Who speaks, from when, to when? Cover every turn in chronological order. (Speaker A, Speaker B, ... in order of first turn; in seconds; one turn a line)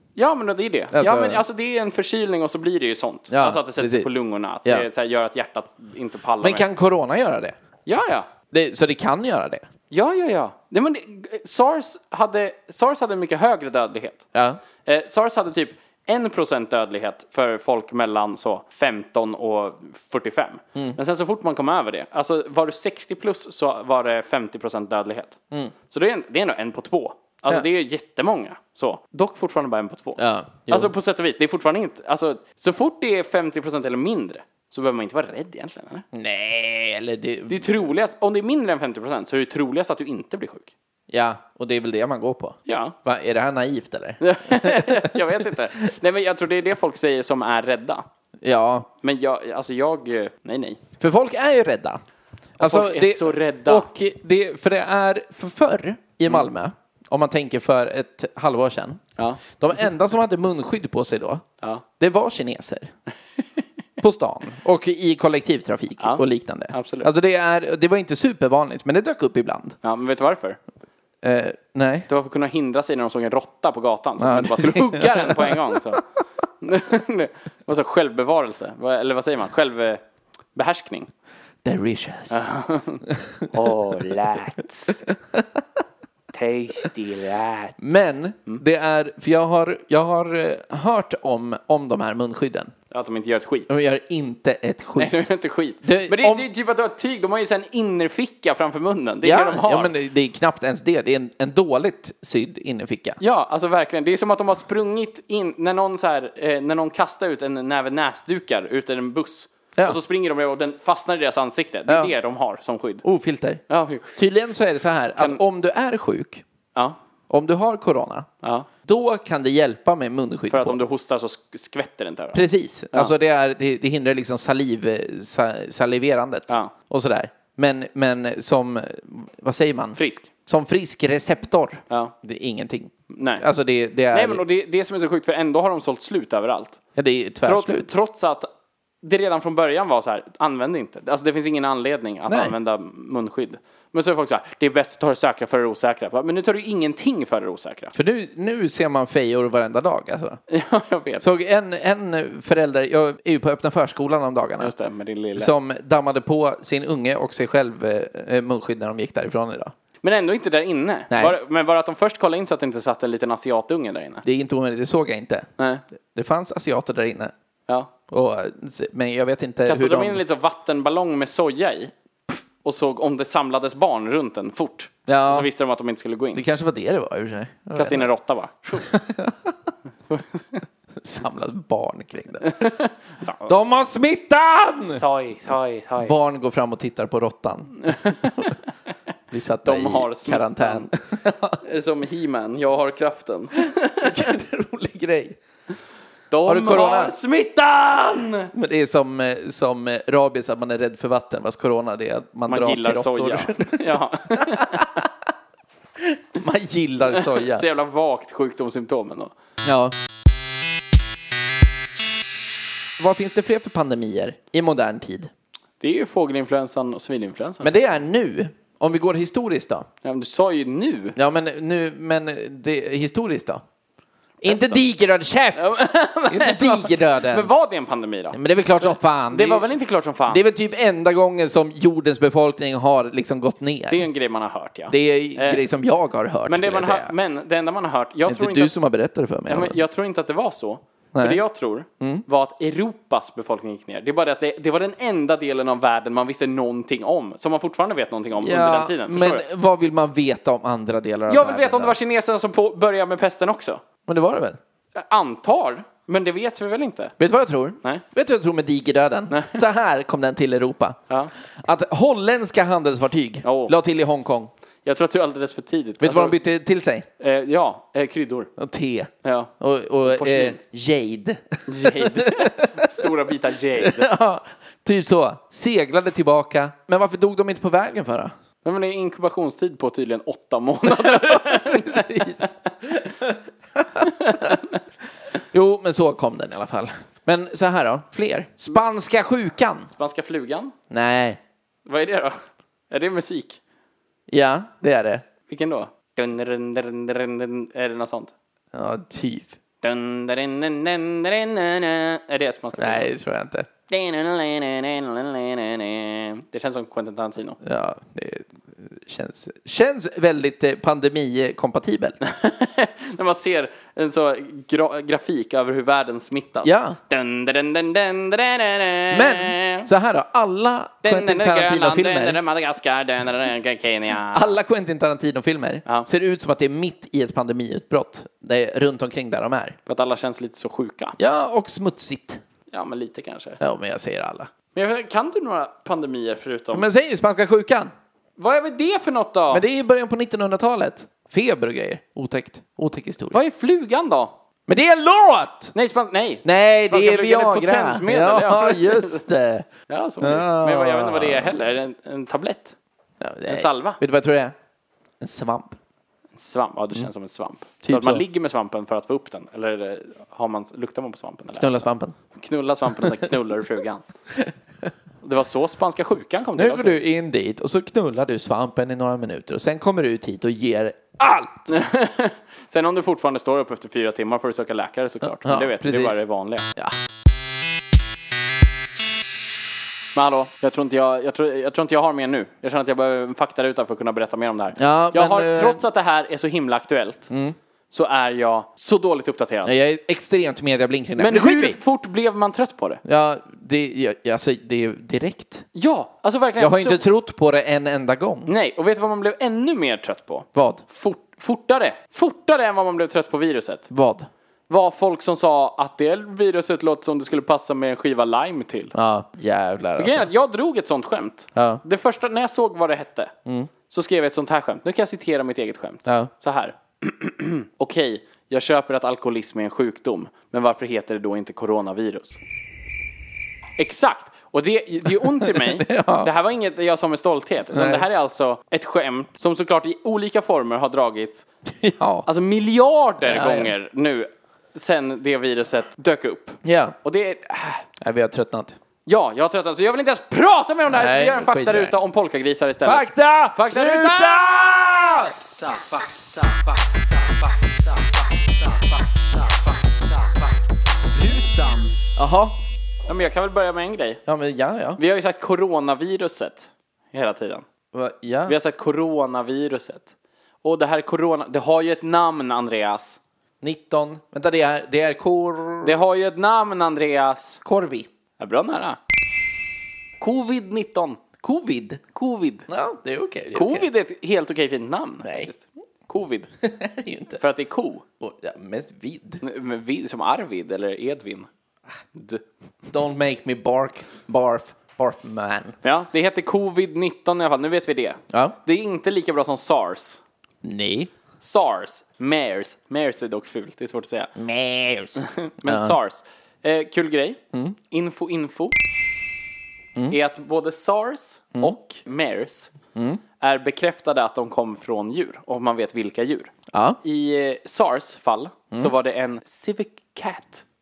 Speaker A: 0.1-6.7
Speaker B: 0.9-1.4
Speaker B: 3.3-4.1
Speaker B: 6.4-7.5
Speaker A: 7.8-8.3
Speaker B: 8.5-9.6
Speaker A: 9.9-14.3
Speaker B: 14.3-14.6
Speaker A: 14.8-25.4
Speaker A: 25.9-36.0
Speaker B: 30.2-30.9
Speaker B: 36.1-37.7
Speaker A: 37.5-40.7
Speaker B: 41.1-45.3
Speaker A: 42.6-43.0
Speaker A: 44.2-48.0
Speaker B: 48.4-48.9
Speaker A: 49.0-50.8
Speaker B: 51.0-52.0
Speaker A: 52.6-53.9
Speaker B: 52.6-61.4
Speaker B: 62.0-62.9
Speaker B: 64.0-69.8
Speaker A: 66.0-67.1
Speaker A: 69.8-70.6
Speaker B: 71.2-72.1
Speaker A: 72.1-76.0
Speaker B: 74.2-76.0
Speaker A: 76.6-80.0
Speaker A: 80.5-81.1
Speaker B: 81.6-82.4
Speaker A: 82.3-85.0
Speaker B: 83.1-83.5
Speaker A: 86.3-88.6
Speaker B: 87.8-92.7
Speaker A: 92.9-93.7
Speaker B: 93.7-95.1
Speaker A: 95.0-99.9
Speaker B: 95.8-96.4
Speaker B: 99.2-103.2
Speaker A: 103.2-113.0
Speaker B: 111.9-112.1
Speaker B: 113.0-113.6
Speaker A: 113.7-114.2
Speaker B: 114.1-116.4
Speaker B: 117.3-118.3
Speaker A: 118.4-118.7
Speaker B: 118.8-120.8
Speaker A: 120.5-123.1
Speaker B: 122.3-134.4
Speaker A: 129.9-130.3
Speaker A: 133.1-133.4
Speaker A: 134.1-136.8
Speaker B: 136.9-137.9
Speaker A: 137.4-138.5
Speaker A: 139.0-147.9
Speaker B: 142.3-142.5
Speaker B: 147.9-150.4
Speaker A: 150.5-151.2
Speaker B: 151.2-154.7
Speaker A: 154.6-155.5
Speaker B: 155.3-159.7
Speaker A: 160.0-164.2
Speaker B: 161.1-161.3
Speaker B: 164.2-165.5
Speaker A: 165.6-165.8
Speaker B: 166.1-167.3
Speaker B: 168.1-170.2
Speaker A: 169.7-176.4
Speaker B: 175.1-175.5
Speaker B: 176.3-178.1
Speaker A: 177.7-178.9
Speaker B: 178.8-179.5
Speaker A: 180.1-180.6
Speaker B: 181.0-182.6
Speaker A: 182.4-183.5
Speaker B: 183.5-185.0
Speaker A: 185.0-186.1
Speaker B: 186.0-188.5
Speaker A: 187.8-188.5
Speaker B: 189.3-191.6
Speaker A: 189.6-190.9
Speaker A: 191.6-194.3
Speaker B: 194.0-195.4
Speaker A: 196.3-198.5
Speaker B: 196.4-197.1
Speaker B: 198.5-203.8
Speaker A: 202.5-205.0
Speaker B: 204.4-205.1
Speaker B: 206.0-207.6
Speaker A: 207.1-209.3
Speaker B: 209.6-209.9
Speaker B: 213.0-215.3
Speaker A: 215.8-218.0
Speaker B: 217.6-219.8
Speaker A: 220.0-221.2
Speaker B: 221.2-223.6
Speaker A: 224.4-224.8
Speaker B: 224.4-225.7
Speaker A: 225.5-230.4
Speaker B: 226.3-227.5
Speaker B: 228.3-229.7
Speaker B: 230.3-234.1
Speaker A: 233.9-235.6
Speaker B: 234.9-237.1
Speaker A: 236.5-238.7
Speaker B: 238.2-239.8
Speaker A: 239.5-249.5
Speaker B: 241.1-241.4
Speaker B: 242.0-242.2
Speaker B: 248.4-252.0
Speaker A: 251.3-253.8
Speaker B: 254.0-254.6
Speaker A: 254.9-257.2
Speaker B: 257.2-261.0
Speaker A: 259.3-259.6
Speaker B: 261.6-264.5
Speaker A: 263.4-263.7
Speaker A: 264.8-266.4
Speaker B: 266.0-267.1
Speaker A: 267.2-268.5
Speaker B: 268.6-273.0
Speaker A: 269.2-269.5
Speaker A: 270.1-270.6
Speaker A: 271.7-274.1
Speaker B: 273.8-278.3
Speaker A: 278.6-282.7
Speaker B: 280.9-284.5
Speaker A: 284.0-284.8
Speaker B: 285.5-289.9
Speaker A: 289.9-290.7
Speaker B: 290.9-291.4
Speaker A: 291.9-292.4
Speaker A: 292.9-293.6
Speaker B: 294.3-295.2
Speaker A: 295.5-298.3
Speaker B: 298.7-299.6
Speaker A: 299.8-303.1
Speaker B: 302.8-303.7
Speaker A: 303.9-307.6
Speaker B: 307.6-312.2
Speaker A: 312.2-319.9
Speaker B: 316.6-317.0
Speaker B: 319.1-322.4
Speaker A: 321.0-324.6
Speaker B: 324.3-329.8
Speaker A: 329.9-331.2
Speaker B: 331.2-332.4
Speaker A: 332.7-333.6
Speaker B: 333.6-334.5
Speaker A: 334.7-336.8
Speaker B: 336.7-337.9
Speaker A: 338.4-339.6
Speaker B: 339.5-343.4
Speaker A: 343.3-344.4
Speaker B: 344.7-345.7
Speaker A: 345.7-349.2
Speaker B: 346.4-349.7
Speaker A: 349.9-352.7
Speaker B: 350.2-351.6
Speaker B: 353.2-354.5
Speaker A: 353.5-354.0
Speaker B: 355.2-355.8
Speaker A: 356.4-364.0
Speaker B: 357.8-358.2
Speaker B: 361.6-362.1
Speaker B: 362.9-363.3
Speaker A: 365.2-367.0
Speaker B: 366.6-371.7
Speaker A: 371.7-376.6
Speaker B: 375.4-376.2
Speaker A: 380.1-387.3
Speaker B: 384.8-385.8
Speaker B: 387.3-387.6
Speaker A: 387.9-389.7
Speaker B: 389.6-391.8
Speaker A: 391.2-393.0
Speaker B: 393.0-395.6
Speaker A: 395.7-397.0
Speaker B: 396.6-398.5
Speaker A: 398.5-403.9
Speaker B: 400.5-400.8
Speaker B: 403.9-404.3
Speaker A: 404.7-408.9
Speaker B: 408.9-410.3
Speaker A: 409.9-413.3
Speaker B: 411.5-411.8
Speaker B: 413.4-413.7
Speaker A: 413.9-422.4
Speaker B: 416.0-416.3
Speaker A: 423.8-431.5
Speaker B: 425.2-426.3
Speaker B: 427.7-428.1
Speaker B: 431.8-432.3
Speaker A: 432.2-437.9
Speaker B: 433.2-433.7
Speaker B: 436.6-436.9
Speaker B: 438.0-438.8
Speaker A: 439.1-448.1
Speaker B: 440.9-441.9
Speaker B: 442.8-445.4
Speaker A: 448.6-450.5
Speaker A: 451.1-452.0
Speaker B: 452.0-452.6
Speaker A: 453.1-454.2
Speaker B: 454.2-455.0
Speaker A: 455.0-457.6
Speaker B: 457.9-458.6
Speaker A: 458.4-460.1
Speaker A: 460.6-463.2
Speaker B: 463.6-466.0
Speaker A: 465.8-467.6
Speaker B: 467.6-468.1
Speaker A: 468.4-469.0
Speaker A: 470.2-471.2
Speaker B: 471.4-472.0
Speaker A: 472.1-472.7
Speaker B: 472.7-473.9
Speaker A: 473.5-476.5
Speaker B: 475.2-475.5
Speaker B: 476.6-477.4
Speaker A: 477.4-478.0
Speaker B: 478.2-479.4
Speaker A: 479.4-481.5
Speaker A: 482.1-482.4
Speaker B: 482.9-485.8
Speaker A: 485.8-490.2
Speaker B: 488.3-488.6
Speaker B: 490.6-491.1
Speaker A: 491.4-494.3
Speaker B: 494.4-496.0
Speaker A: 495.2-498.7
Speaker A: 500.1-502.7
Speaker B: 502.9-503.2
Speaker A: 503.4-510.6
Speaker B: 506.7-507.0